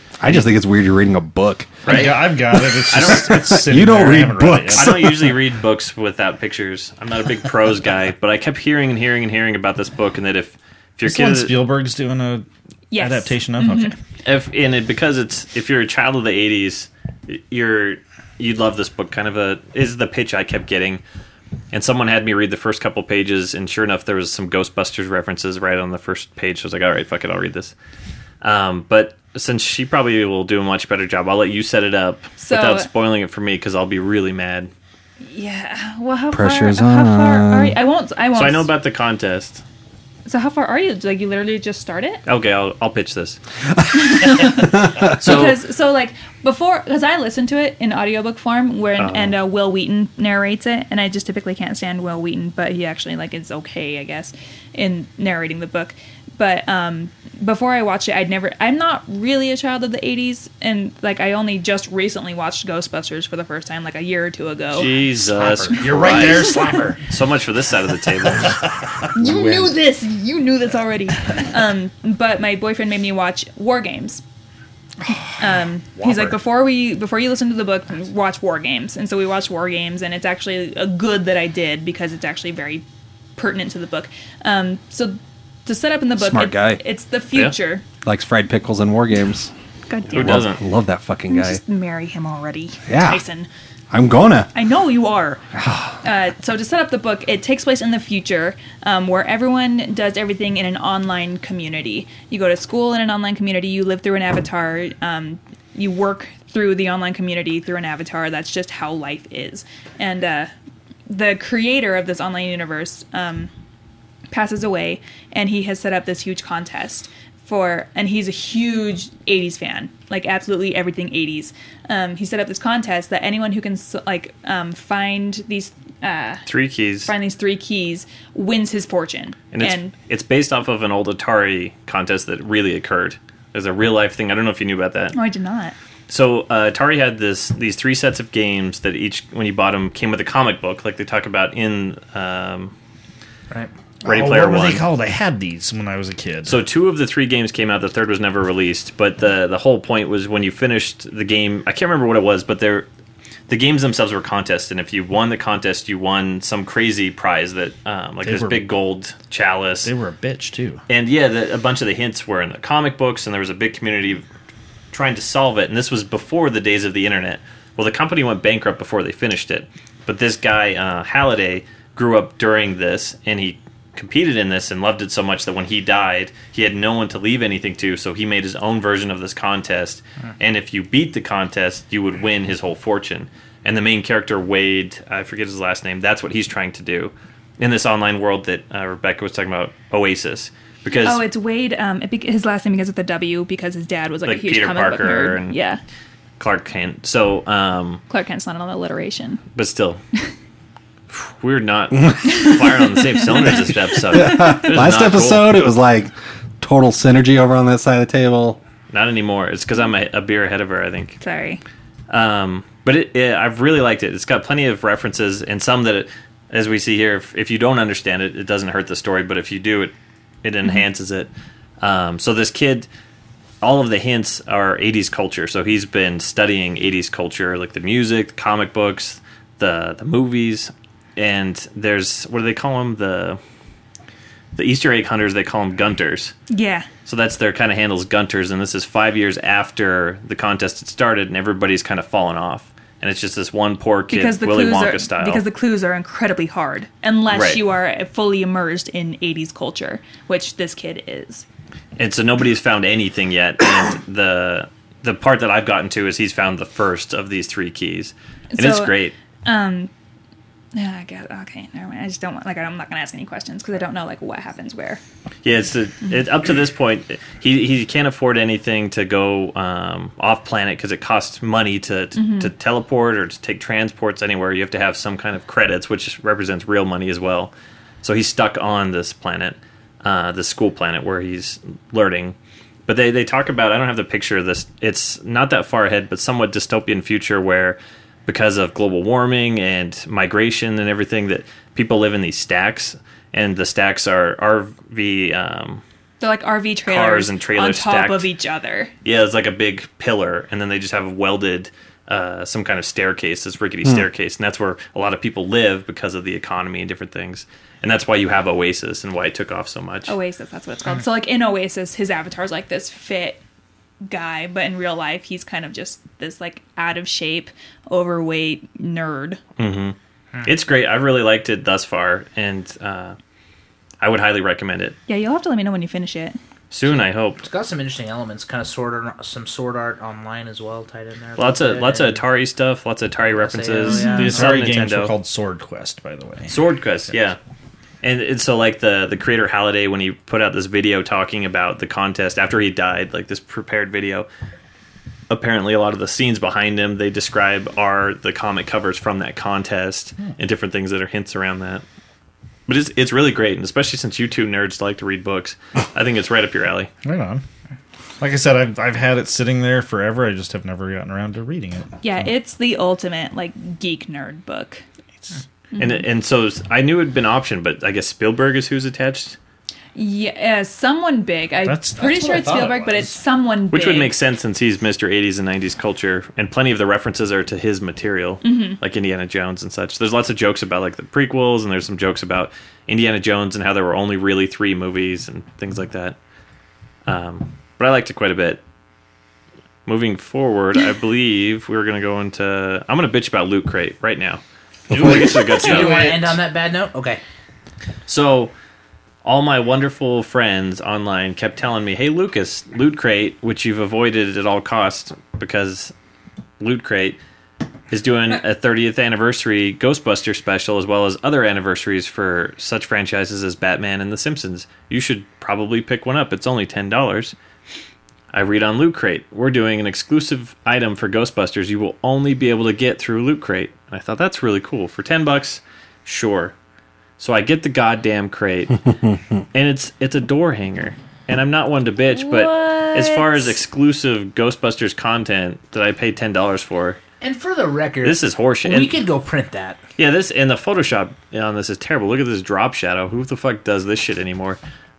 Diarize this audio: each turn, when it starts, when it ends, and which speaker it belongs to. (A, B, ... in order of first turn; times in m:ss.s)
0:00.2-0:05.4 A
0:01.9-0:02.2 B
0:01.9-0:05.1 C
0:02.9-0:03.5 B
0:04.7-0:11.5 B
0:11.0-0:14.0 C
0:12.9-0:13.9 D
0:14.2-0:21.0 B
0:21.7-0:27.7 B
0:28.4-0:34.7 B
0:32.4-0:32.9 D
0:35.2-0:38.7 D
0:36.3-0:37.8 A
0:38.4-0:39.6 B
0:40.3-0:42.2 D
0:42.3-0:43.4 B
0:43.9-1:05.0 D
0:45.0-0:45.6 B
0:49.0-0:49.4 B
1:04.7-1:08.6 B
1:05.3-1:07.0 C
1:06.3-1:06.8 D
1:08.4-1:08.7 C
1:09.1-1:14.2 D
1:15.1-1:22.8 D
1:16.0-1:16.3 C
1:23.4-1:27.8 D
1:26.2-1:26.8 A
1:28.0-1:29.5 A
1:29.9-1:30.5 D
1:30.1-1:30.6 B
1:30.1-1:31.6 A
1:31.3-1:33.5 D
1:32.9-1:33.2 A
1:33.9-1:34.5 A
1:34.5-1:35.5 D
1:35.6-1:36.0 A
1:36.0-1:50.5 D
1:51.1-1:53.5 D
1:54.3-2:06.5 D
2:06.5-2:07.1 B
2:07.0-2:09.9 D
2:09.5-2:15.2 B
2:15.1-2:15.8 D
2:16.1-2:22.7 B
2:24.0-2:26.6 C
2:24.0-2:24.8 B
2:26.5-2:32.9 B
2:33.5-2:39.9 B
2:38.2-2:38.7 C
2:39.8-2:40.8 C
2:40.9-2:44.2 B
2:44.9-3:11.2 B
3:11.0-3:15.8 D
3:14.2-3:15.6 B
3:16.4-3:18.0 B
3:18.1-3:19.4 D
3:19.5-3:20.0 B
3:21.1-3:25.6 B
3:24.0-3:28.6 A
3:28.9-3:31.2 B
3:31.2-3:31.6 D
3:32.1-3:39.9 B
3:40.4-3:41.3 B
3:41.8-3:42.9 B
3:43.6-3:53.4 B
3:54.6-3:56.3 B
3:56.5-3:56.9 D
3:57.1-4:05.4 B
4:04.1-4:11.4 D
4:07.3-4:07.6 B
4:12.0-4:19.2 B
4:18.5-4:19.9 D
4:20.8-4:25.0 D
4:25.4-4:37.5 B
4:32.2-4:32.5 D
4:38.0-4:42.4 B
4:42.9-4:55.8 B
4:56.2-4:58.9 D
4:56.9-4:58.3 B
4:59.0-5:10.1 B
5:10.1-5:13.4 D
5:14.0-5:19.4 D
5:19.6-5:23.2 B
5:24.0-5:25.0 B
5:25.1-5:26.4 D
5:26.7-5:27.4 B
5:26.9-5:32.2 E
5:31.4-5:35.1 B
5:33.3-5:34.5 E
5:33.8-5:34.4 D
5:34.0-5:36.6 C
5:36.5-5:37.4 B
5:38.0-5:44.3 B
5:45.3-5:51.8 B
5:52.7-5:56.9 B
5:57.0-5:57.4 C
5:58.2-6:01.9 C
6:02.0-6:04.8 D
6:05.7-6:06.0 D
6:05.8-6:09.4 B
6:10.0-6:14.1 D
6:11.6-6:13.1 C
6:13.7-6:26.2 B
6:18.4-6:18.8 D
6:27.1-6:28.6 B
6:29.9-6:36.4 B
6:34.9-6:36.0 C
6:35.0-6:37.2 E
6:38.1-6:38.5 B
6:39.2-6:45.9 B
6:46.6-6:47.2 B
6:47.9-6:57.4 B
6:58.3-7:06.5 B
7:07.2-7:08.9 B
7:09.5-7:17.0 B
7:12.1-7:13.6 D
7:17.2-7:19.8 E
7:18.0-7:19.0 B
7:20.0-7:24.6 B